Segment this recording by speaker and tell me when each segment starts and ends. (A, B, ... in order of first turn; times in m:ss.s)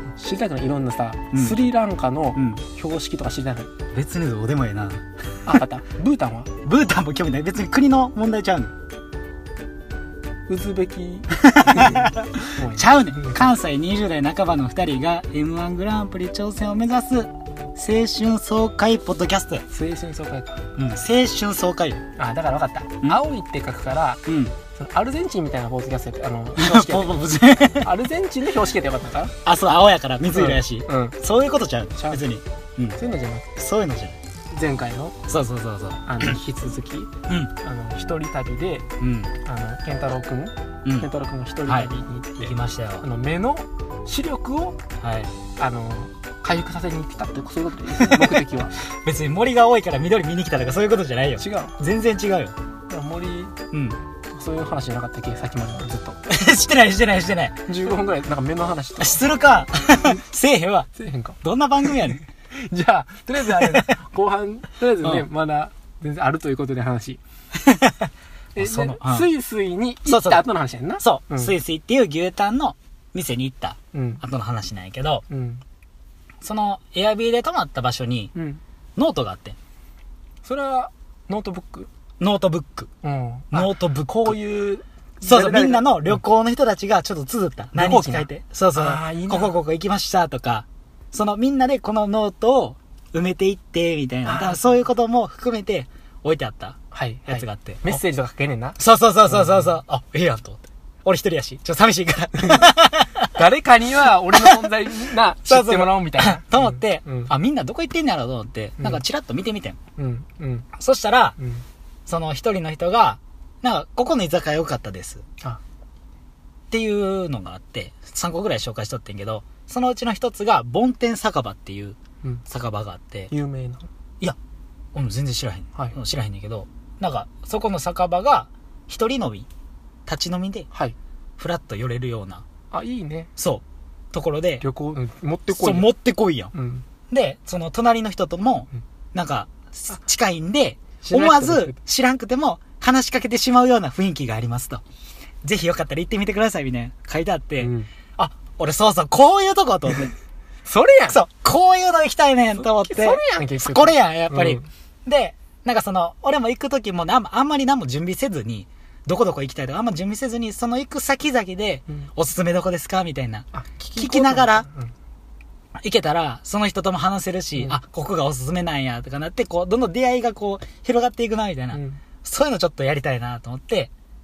0:00.2-0:03.7 A
0:01.3-0:01.6 B
0:02.3-0:02.6 B
0:03.9-0:05.0 B
0:05.4-0:06.5 A
0:06.6-0:08.7 B
0:10.5-0:13.5 A
0:11.3-0:19.6 B
0:19.7-0:20.6 A
0:20.8-0:22.0 B
0:22.2-0:27.2 A
0:24.3-0:24.6 B
0:26.6-0:27.9 B
0:27.8-0:29.3 A
0:29.4-0:33.0 B
0:30.3-0:31.2 A
0:32.0-0:32.2 A
0:33.0-0:33.5 A
0:33.6-0:34.2 B
0:34.5-0:35.1 A
0:35.3-0:36.3 B
0:36.0-0:38.9 A
0:37.3-0:37.5 B
0:39.0-0:39.4 B
0:39.4-0:44.8 A
0:41.7-0:43.1 B
0:45.0-0:45.3 B
0:45.6-0:48.8 A
0:48.0-0:52.6 B
0:51.4-0:51.7 A
0:52.9-0:53.6 A
0:53.7-0:54.0 B
0:54.3-0:56.2 A
0:56.3-0:57.6 B
0:57.7-0:59.2 A
0:59.0-1:00.9 B
1:00.9-1:07.2 A
1:01.4-1:02.2 B
1:03.5-1:03.9 B
1:07.6-1:09.3 B
1:08.6-1:11.5 A
1:10.0-1:10.4 B
1:11.0-1:15.2 B
1:13.9-1:14.2 A
1:15.3-1:15.6 A
1:16.4-1:18.3 B
1:18.3-1:18.6 A
1:19.0-1:19.6 B
1:20.4-1:21.9 A
1:22.2-1:22.9 B
1:23.0-1:26.2 A
1:23.5-1:24.4 B
1:25.2-1:38.0 B
1:27.8-1:29.6 A
1:34.2-1:34.7 A
1:36.9-1:38.8 A
1:38.8-1:43.3 B
1:42.4-1:42.7 A
1:43.3-1:47.3 A
1:45.4-1:49.8 B
1:50.0-1:50.7 A
1:50.7-1:51.4 B
1:52.1-1:55.2 B
1:56.7-2:03.3 B
2:03.3-2:03.9 A
2:04.9-2:09.5 B
2:10.1-2:10.7 B
2:10.7-2:11.0 A
2:11.4-2:12.4 B
2:12.7-2:13.3 A
2:13.4-2:14.6 B
2:14.6-2:15.9 A
2:15.5-2:16.5 B
2:16.5-2:16.8 A
2:17.1-2:24.8 B
2:21.0-2:21.8 A
2:25.4-2:30.1 B
2:27.6-2:27.9 A
2:30.6-2:31.2 A
2:31.1-2:44.7 B
2:32.6-2:34.7 A
2:43.5-2:44.9 A
2:45.8-2:53.9 B
2:51.7-2:52.0 A